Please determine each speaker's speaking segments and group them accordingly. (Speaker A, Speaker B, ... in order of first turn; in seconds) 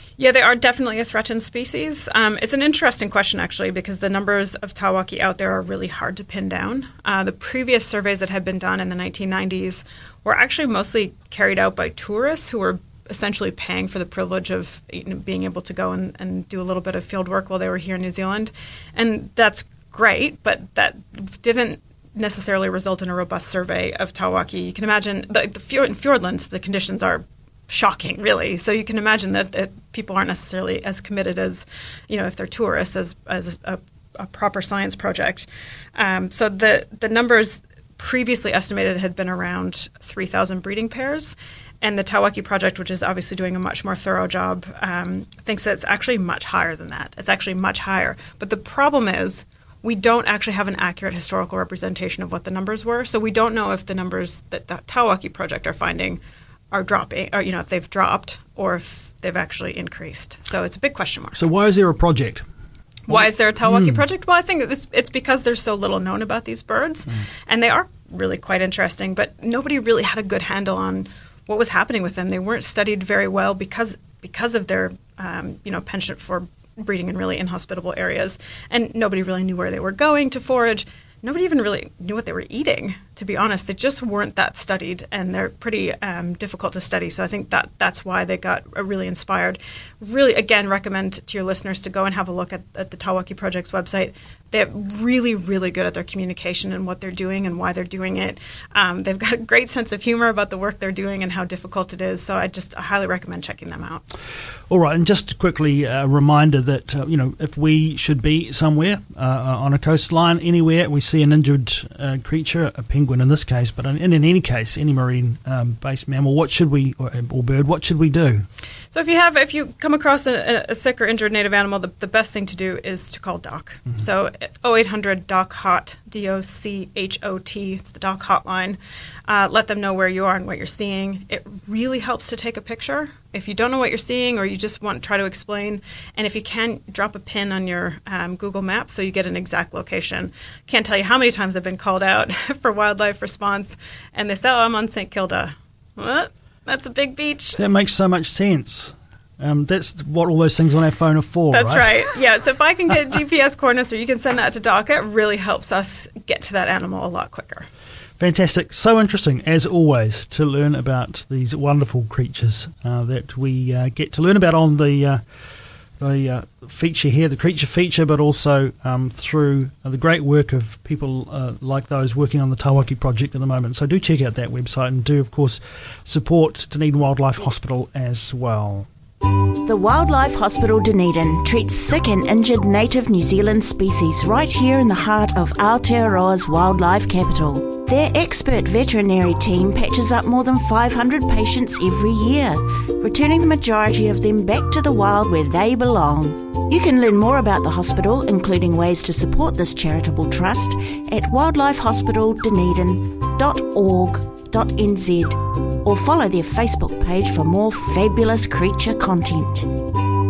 Speaker A: 0.2-56.2, 56.7-61.4, 63.1-104.0, 118.9-147.6, 151.5-157.7
Speaker B: 61.3-62.5, 63.1-64.0, 104.7-118.5, 147.6-152.0, 158.2-165.2, 166.0-178.9
Speaker C: 179.6-209.7